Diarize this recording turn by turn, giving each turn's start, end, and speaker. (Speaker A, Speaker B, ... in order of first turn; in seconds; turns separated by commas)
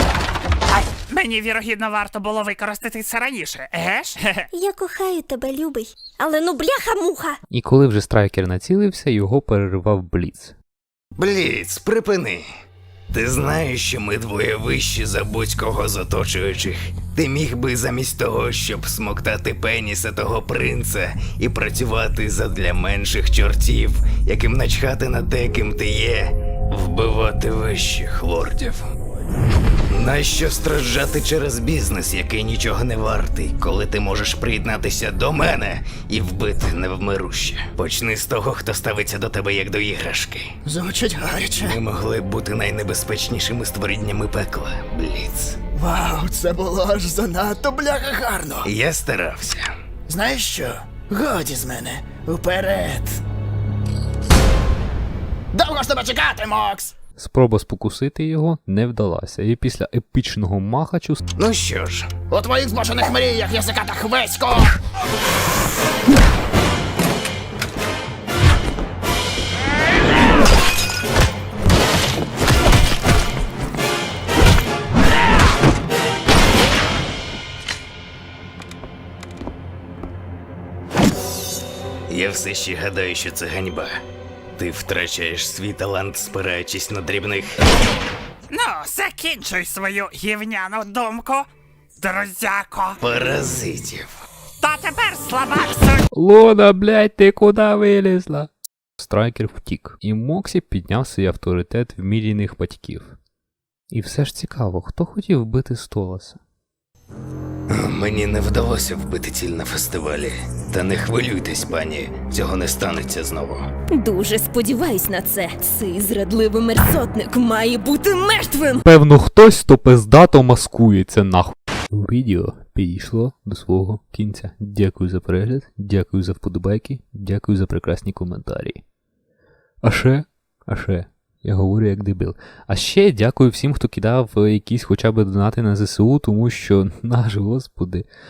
Speaker A: 0.7-4.5, Speaker B: 4.5-7.4, Speaker C: 7.5-10.5, Speaker D: 11.2-12.4, Speaker D: 13.1-28.8, Speaker D: 29.9-40.5, Speaker E: 40.6-41.8, Speaker D: 41.6-45.6, Speaker E: 45.7-48.7, Speaker D: 48.6-49.6, Speaker E: 50.1-53.2, Speaker E: 55.5-56.9, Speaker C: 57.1-61.2, Speaker D: 61.4-62.1, Speaker E: 62.3-64.7, Speaker D: 82.1-84.0, Speaker D: 84.5-87.6, Speaker A: 88.5-91.5, Speaker A: 92.0-93.0, Speaker D: 93.0-94.1, Speaker A: 94.6-96.0, Speaker C: 96.1-103.2, Speaker C: 103.9-106.4, Speaker D: 107.7-113.7, Speaker F: 113.9-118.8, Speaker C: 118.8-128.8, Speaker C: 129.8-138.1